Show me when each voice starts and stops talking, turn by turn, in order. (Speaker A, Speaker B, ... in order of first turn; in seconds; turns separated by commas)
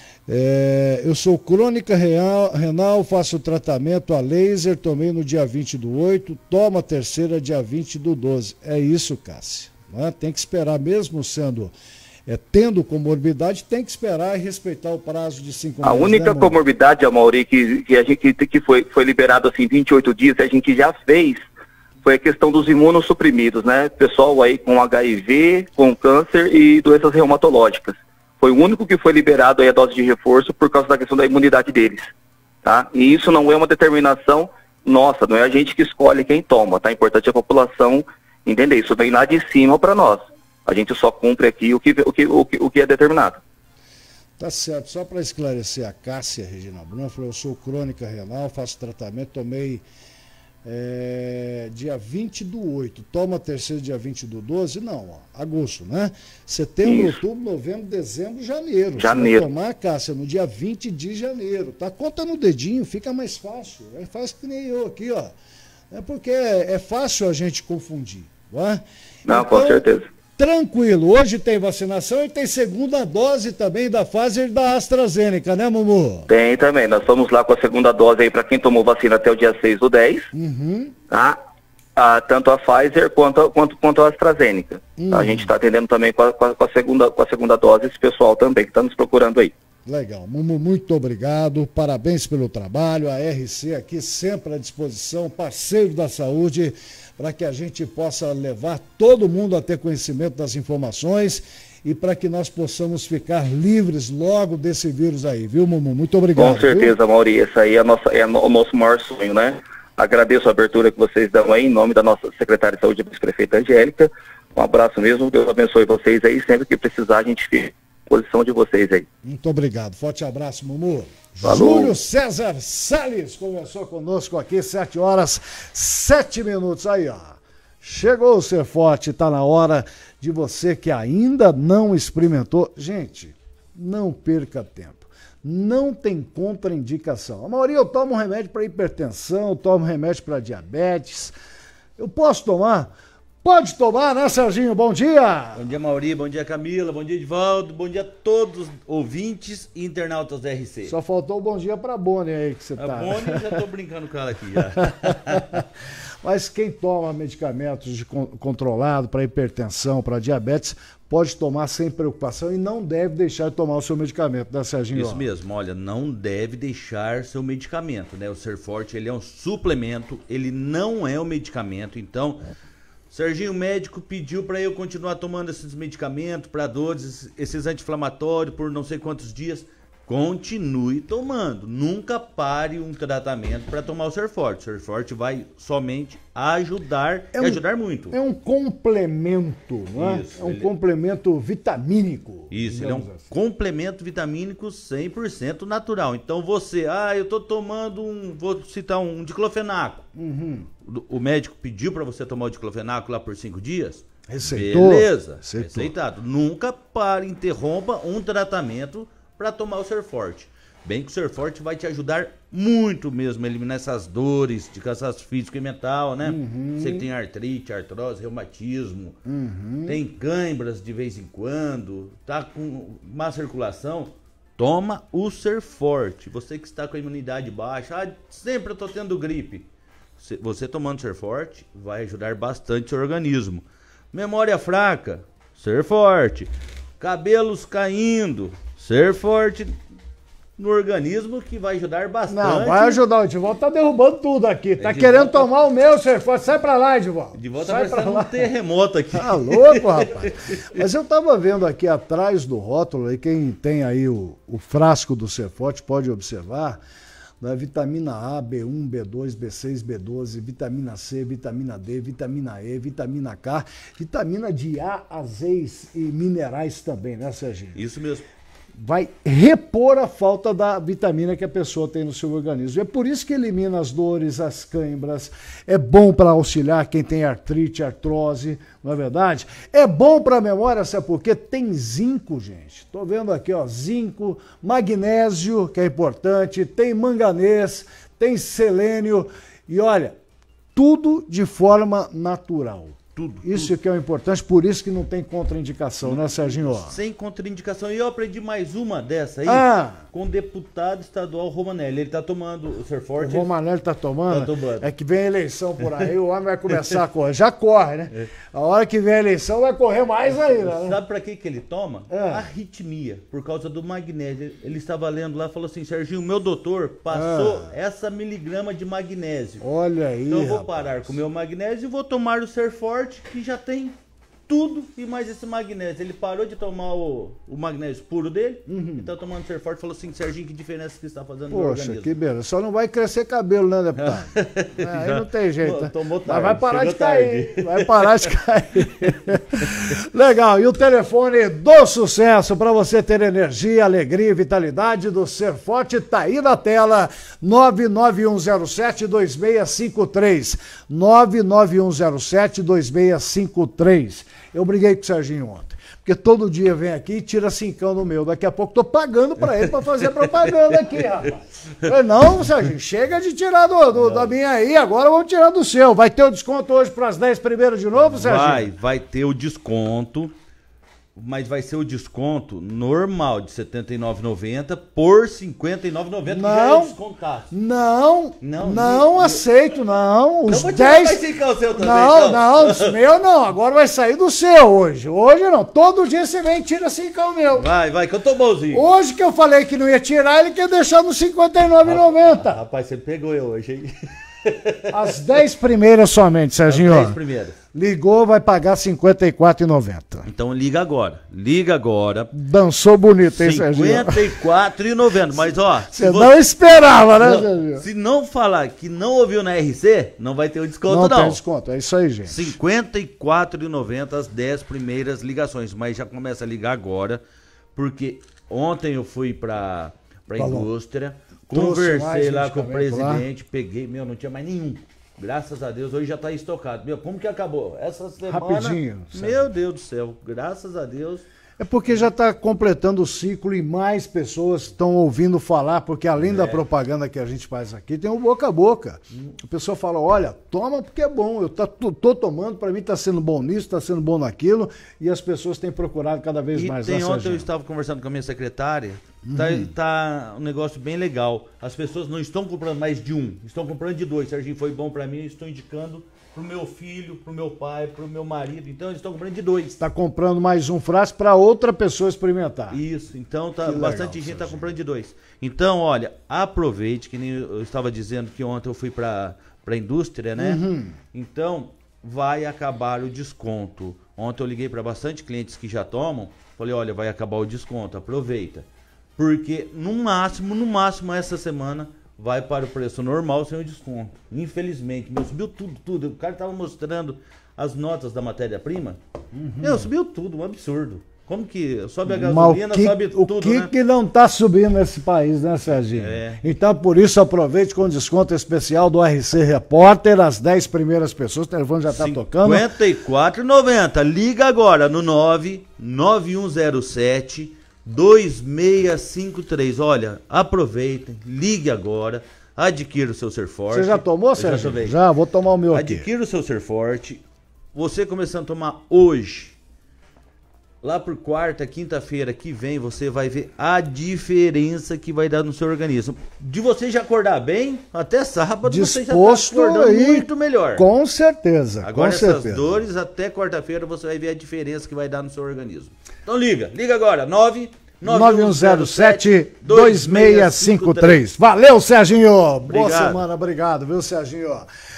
Speaker A: 0.3-11.7, Speaker A: 12.2-16.6, Speaker B: 15.8-21.4, Speaker B: 22.0-32.1, Speaker B: 32.6-43.4, Speaker A: 44.4-49.8, Speaker A: 50.6-65.3, Speaker B: 56.8-57.2, Speaker B: 59.0-59.4, Speaker A: 65.9-69.8, Speaker B: 69.3-70.0, Speaker A: 70.4-76.3, Speaker B: 76.3-80.3, Speaker A: 80.3-81.0, Speaker B: 81.1-81.4, Speaker B: 82.0-89.5, Speaker A: 85.0-85.5, Speaker A: 89.8-106.9, Speaker B: 106.3-119.0, Speaker A: 119.2-141.3, Speaker B: 121.4-121.9, Speaker A: 142.0-142.9, Speaker A: 143.4-145.6, Speaker C: 145.5-150.9, Speaker A: 150.8-153.6, Speaker C: 152.8-155.4, Speaker A: 155.1-155.4, Speaker A: 156.2-165.3, Speaker C: 164.9-172.4, Speaker C: 173.1-188.2, Speaker A: 187.3-193.3, Speaker C: 189.9-190.7, Speaker C: 192.5-200.1, Speaker A: 200.2-200.7, Speaker C: 200.8-219.2, Speaker A: 204.3-205.9, Speaker A: 216.2-217.1, Speaker A: 219.2-220.0, Speaker C: 219.8-229.7, Speaker C: 230.2-239.8, Speaker C: 240.6-243.0, Speaker A: 242.3-248.5, Speaker C: 244.8-245.5, Speaker C: 247.3-250.8, Speaker A: 249.1-256.8, Speaker A: 257.4-267.8, Speaker C: 267.7-268.2, Speaker A: 268.7-290.1, Speaker A: 290.7-297.0, Speaker C: 293.1-293.8, Speaker C: 296.0-303.5, Speaker A: 299.4-300.0, Speaker A: 303.2-311.0, Speaker C: 304.3-304.9, Speaker C: 310.2-319.6, Speaker A: 312.1-312.4, Speaker A: 317.1-317.7, Speaker A: 319.6-321.1, Speaker C: 320.3-323.9, Speaker C: 324.5-332.1, Speaker A: 328.7-329.1, Speaker A: 331.5-368.7, Speaker C: 333.9-338.2, Speaker C: 359.4-361.1, Speaker C: 363.9-364.4, Speaker C: 367.9-370.3, Speaker C: 371.1-377.5, Speaker A: 376.3-376.9, Speaker A: 377.5-381.2, Speaker C: 378.4-379.4, Speaker C: 380.4-383.0, Speaker A: 381.7-387.7, Speaker C: 387.5-388.9, Speaker A: 388.7-392.6, Speaker C: 391.8-393.9, Speaker C: 394.4-395.1, Speaker A: 394.9-397.2, Speaker C: 396.6-397.6, Speaker A: 397.7-400.3, Speaker C: 400.2-402.3, Speaker A: 402.3-404.2, Speaker C: 403.3-411.4, Speaker A: 405.4-407.9, Speaker A: 410.8-412.6, Speaker C: 412.2-417.2, Speaker C: 417.7-431.2, Speaker A: 420.4-420.7, Speaker A: 421.5-423.2, Speaker A: 428.2-429.5, Speaker A: 431.6-447.5, Speaker C: 436.2-436.6, Speaker C: 446.5-459.8, Speaker A: 449.2-449.7, Speaker A: 459.8-462.8, Speaker C: 462.7-478.6, Speaker A: 463.6-464.7, Speaker A: 470.4-470.9, Speaker C: 479.2-489.0, Speaker A: 489.3-489.9, Speaker C: 489.6-493.7, Speaker A: 492.1-502.7, Speaker C: 495.9-496.4, Speaker C: 501.9-515.0, Speaker A: 513.7-516.0, Speaker C: 515.7-517.2, Speaker C: 517.7-519.5, Speaker C: 520.8-530.9, Speaker A: 528.6-532.7, Speaker C: 531.8-541.2, Speaker A: 538.0-544.7, Speaker C: 542.6-543.2